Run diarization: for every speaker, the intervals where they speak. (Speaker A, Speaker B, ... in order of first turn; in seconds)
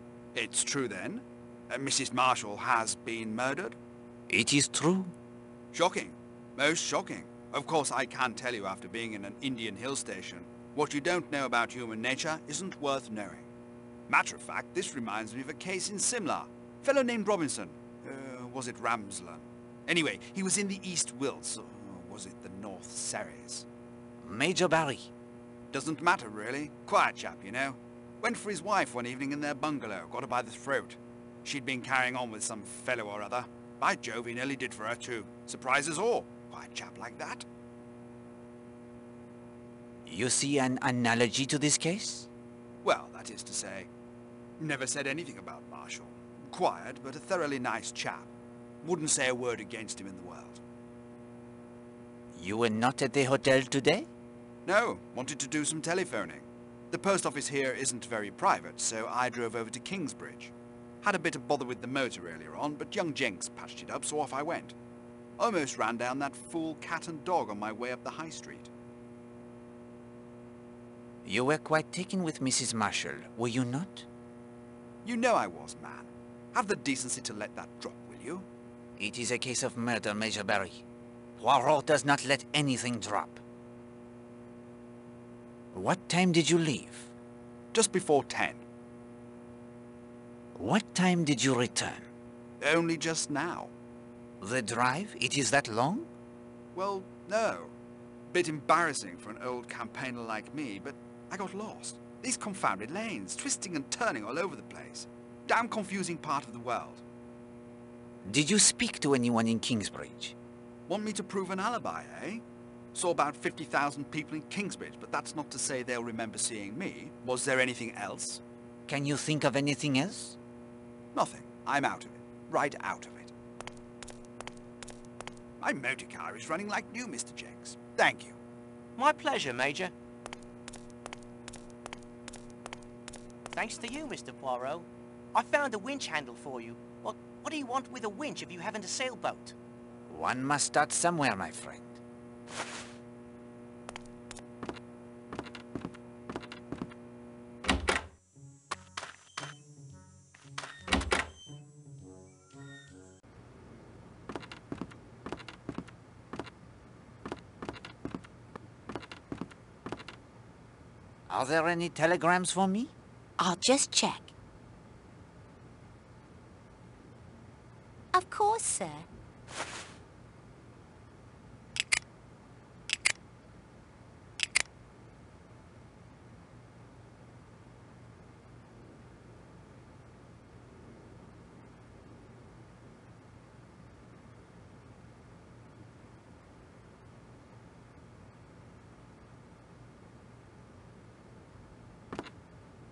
Speaker A: 0.3-3.8, 5.7-13.5, 14.1-23.7, 25.7-37.5, 42.8-43.9, 44.6-48.3, 48.8-50.6, 54.6-64.8, 65.4-68.7, 75.0-78.5, 87.7-88.6, 92.6-93.7, 96.7-97.7, 98.3-107.0, 110.9-118.4, 121.1-123.3, 125.6-128.4
Speaker B: 4.3-5.1, 24.2-25.1, 40.0-42.3, 52.3-54.1, 71.2-74.1, 79.0-80.8, 81.4-83.4, 85.7-87.1, 90.5-92.0, 94.4-96.1, 108.2-110.3, 118.9-120.4, 140.1-142.0, 161.3-162.9
Speaker C: 128.9-129.9, 133.5-139.5
Speaker D: 163.4-164.3, 168.1-169.1